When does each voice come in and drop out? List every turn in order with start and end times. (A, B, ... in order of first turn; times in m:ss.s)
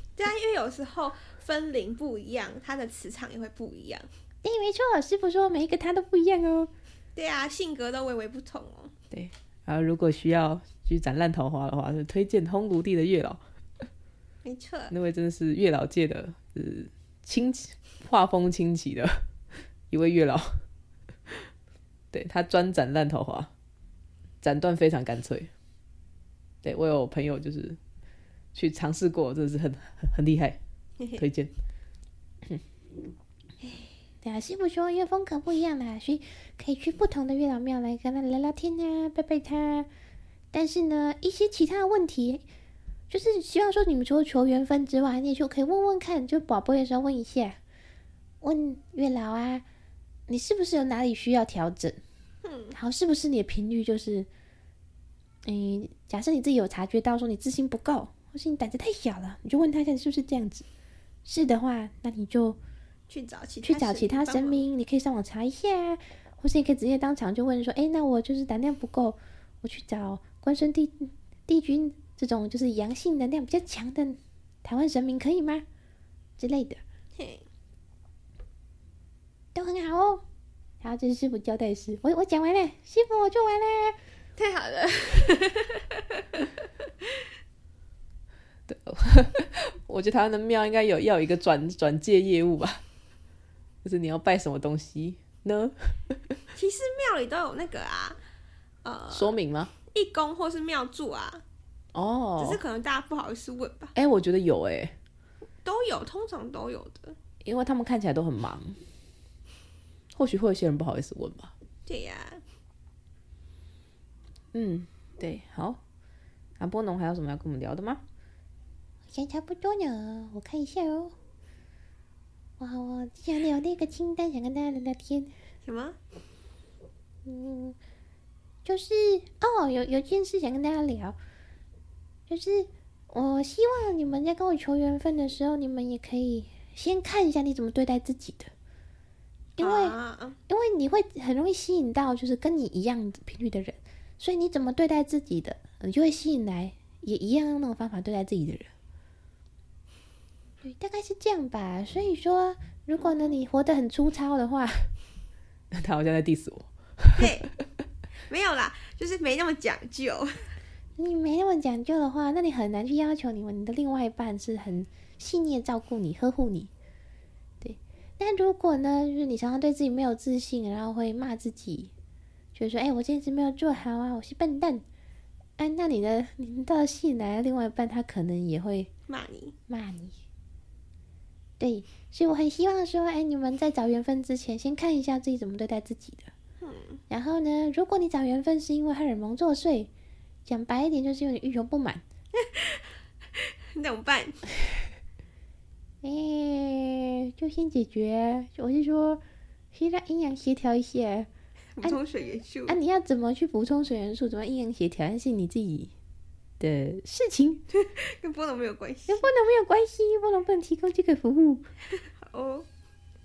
0:00.2-0:04.1 A
0:04.4-0:06.7 B
0:07.2-0:08.9 A
0:09.1-0:13.4 C
0:14.4-0:14.9 A
0:14.9-0:19.2 C
0:19.9-0:20.6 C
0:22.1-0:23.5 C
0:24.4-0:25.5 C
0:26.6-0:27.8 C
0:28.5-0:30.6 C
0:31.2-0:31.5 C
0:34.2-0:39.9 B
0:40.5-0:42.4 B
0:43.1-0:47.6 B
0:48.4-0:49.6 B
0:50.3-0:52.0 B
0:52.4-0:52.7 A
0:52.7-0:54.3 B
0:55.4-1:00.6 B
1:01.2-1:02.6 B
1:03.1-1:04.6 A
1:03.6-1:15.6 B
1:16.4-1:16.8 B
1:17.2-1:17.4 A
1:19.5-1:20.2 B
1:20.8-1:24.0 B
1:24.4-1:26.5 A
1:28.7-1:32.8 C
1:33.8-1:36.4 C
1:36.5-1:38.2 A
1:38.8-1:39.3 A
1:39.1-1:39.7 C
1:39.8-1:41.4 A
1:41.9-1:42.6 C
1:42.4-1:43.9 A
1:43.9-1:44.9 C
1:45.6-1:47.2 A
1:47.4-1:48.8 C
1:50.1-1:51.5 C
1:51.9-1:52.4 A
1:54.5-1:55.8 C
1:56.6-1:58.0 C
1:59.1-2:01.1 B
2:02.6-2:05.3 B
2:05.6-2:06.0 A
2:07.2-2:07.8 B
2:08.6-2:11.2 B
2:12.3-2:18.5 B
2:19.6-2:20.0 B
2:19.6-2:20.4 A
2:20.5-2:28.7 B
2:30.6-2:34.9 B
2:33.0-2:33.3 A
2:35.7-2:37.4 C
2:37.2-2:37.5 A
2:38.3-2:40.5 A
2:41.0-2:46.7 B
2:47.6-2:51.9 B
2:52.5-2:54.8 B
2:55.6-2:58.9 B
2:59.1-2:59.5 A
2:59.7-3:00.1 B
3:01.6-3:06.3 B
3:06.6-3:07.0 A
3:07.1-3:09.9 B
3:10.4-3:12.0 B
3:12.3-3:14.4 A
3:16.0-3:19.2 B
3:19.7-3:21.3 B
3:21.8-3:22.8 A
3:22.7-3:25.9 B
3:26.6-3:27.6 B
3:27.7-3:29.2 A
3:29.1-3:31.6 B
3:32.0-3:32.6 A